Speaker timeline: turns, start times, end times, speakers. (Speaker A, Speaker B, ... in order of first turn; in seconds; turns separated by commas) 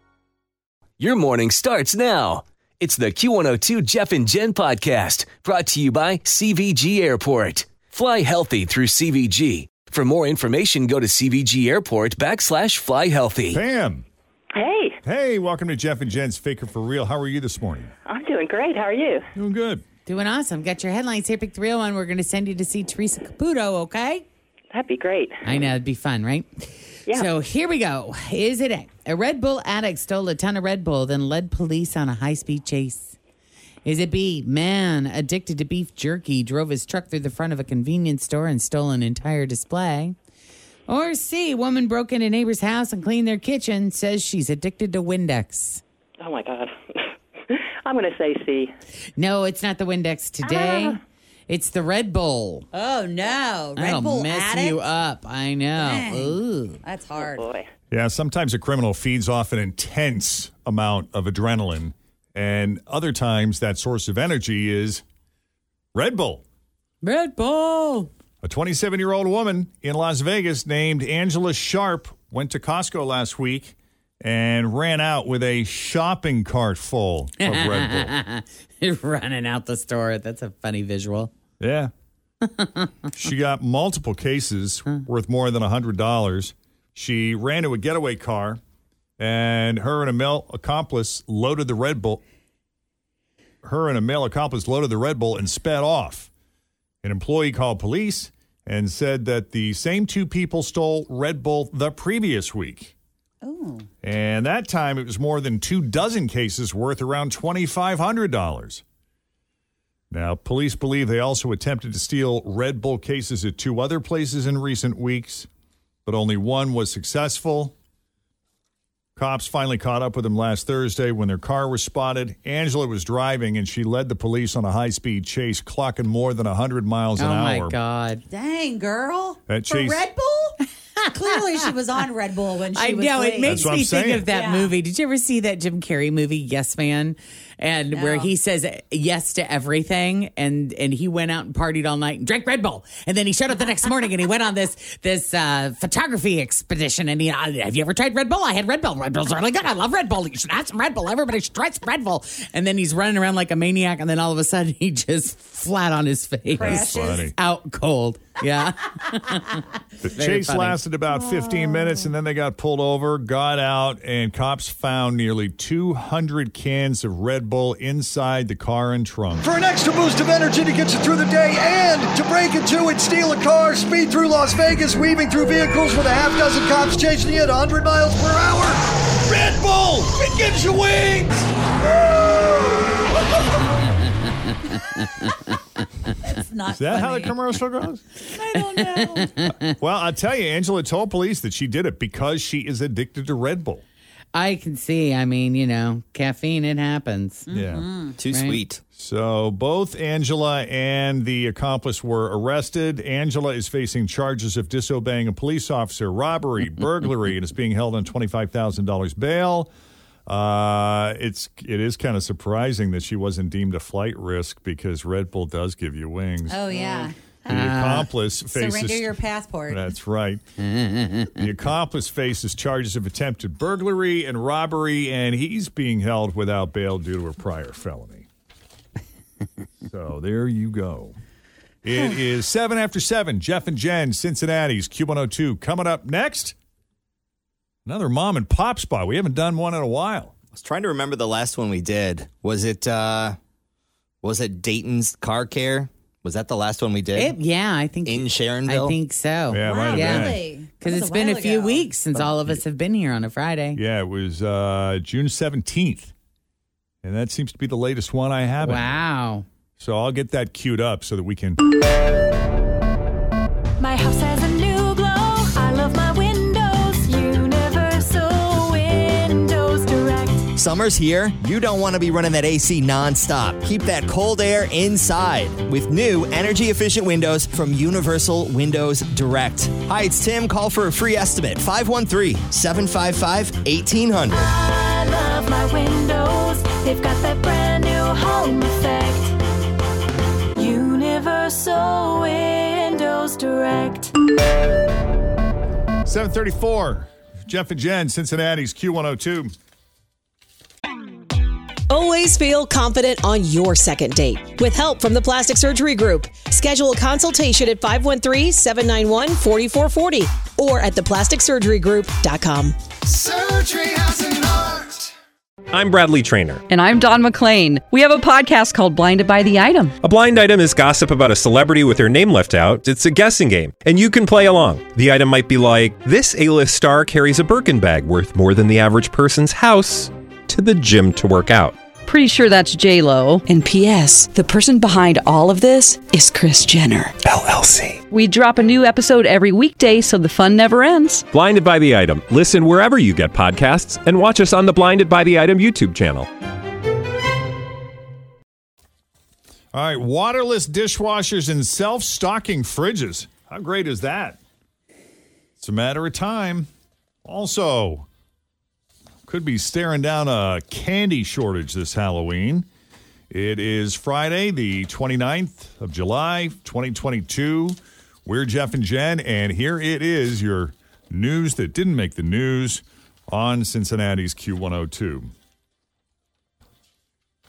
Speaker A: 1.0-13.6, Speaker B: 13.5-14.1, Speaker C: 14.6-14.9, Speaker B: 15.0-17.9, Speaker C: 18.1-19.2, Speaker B: 19.3-19.8, Speaker D: 20.1-24.2, Speaker C: 24.7-25.6, Speaker D: 25.4-33.1, Speaker D: 33.9-40.1, Speaker D: 40.9-45.8, Speaker C: 46.2-46.7, Speaker C: 47.9-48.7, Speaker D: 49.2-52.6, Speaker C: 50.5-50.8, Speaker E: 52.7-54.9, Speaker D: 53.8-56.8, Speaker E: 55.8-57.5, Speaker C: 57.2-57.6, Speaker B: 57.9-65.0, Speaker B: 65.9-66.4, Speaker D: 67.0-68.1, Speaker B: 68.4-78.1, Speaker D: 77.4-81.3, Speaker B: 81.6-81.9, Speaker D: 82.4-83.0, Speaker B: 83.1-88.6, Speaker B: 89.2-92.2, Speaker B: 93.6-96.3, Speaker B: 97.0-102.9, Speaker E: 103.4-103.9, Speaker B: 104.0-108.8, Speaker B: 110.1-115.5, Speaker B: 116.0-117.7, Speaker B: 119.2-127.8, Speaker D: 127.2-128.2, Speaker E: 128.3-133.7, Speaker B: 129.5-130.0, Speaker D: 131.0-131.7, Speaker D: 132.7-160.8, Speaker B: 133.5-134.3, Speaker E: 134.2-134.8, Speaker E: 137.9-138.3, Speaker E: 156.5-157.3, Speaker B: 156.6-157.3, Speaker B: 160.0-169.5, Speaker F: 169.4-178.8, Speaker F: 179.3-181.3, Speaker D: 184.7-185.3, Speaker E: 186.2-187.3, Speaker B: 186.7-188.0, Speaker E: 188.2-189.3, Speaker D: 188.5-189.7, Speaker B: 189.7-193.8, Speaker D: 194.3-197.5, Speaker E: 197.5-198.2, Speaker B: 197.5-197.9, Speaker G: 198.2-198.8, Speaker D: 198.2-198.6, Speaker B: 198.9-209.7, Speaker B: 210.3-216.8, Speaker E: 216.5-217.7, Speaker D: 217.5-218.1, Speaker B: 217.5-219.2, Speaker E: 218.4-219.8, Speaker B: 219.7-220.4, Speaker D: 220.6-221.4, Speaker B: 221.3-228.3, Speaker B: 229.8-231.2, Speaker B: 231.8-236.5, Speaker B: 237.8-240.3, Speaker G: 240.6-243.4, Speaker G: 244.2-247.4, Speaker D: 247.1-253.8, Speaker G: 248.1-249.0, Speaker B: 249.5-250.4, Speaker E: 249.6-251.9, Speaker B: 252.1-252.6, Speaker B: 253.7-256.1, Speaker B: 257.0-259.0, Speaker D: 258.6-259.4, Speaker B: 259.8-261.6, Speaker H: 263.8-268.9, Speaker I: 266.5-267.8, Speaker I: 268.3-270.4, Speaker H: 269.5-269.9, Speaker G: 270.5-284.5, Speaker I: 284.3-289.2, Speaker I: 290.6-294.0, Speaker B: 296.0-299.5, Speaker J: 301.9-312.8, Speaker F: 313.1-315.1, Speaker I: 315.7-316.6, Speaker K: 316.7-319.9, Speaker I: 320.0-331.7, Speaker K: 332.1-337.0, Speaker J: 333.5-334.4, Speaker J: 336.0-337.1, Speaker I: 337.5-337.7, Speaker K: 338.1-341.2, Speaker I: 341.4-346.3, Speaker B: 349.7-354.4, Speaker B: 355.6-356.7, Speaker B: 357.2-358.1, Speaker B: 359.3-362.7, Speaker B: 363.3-375.3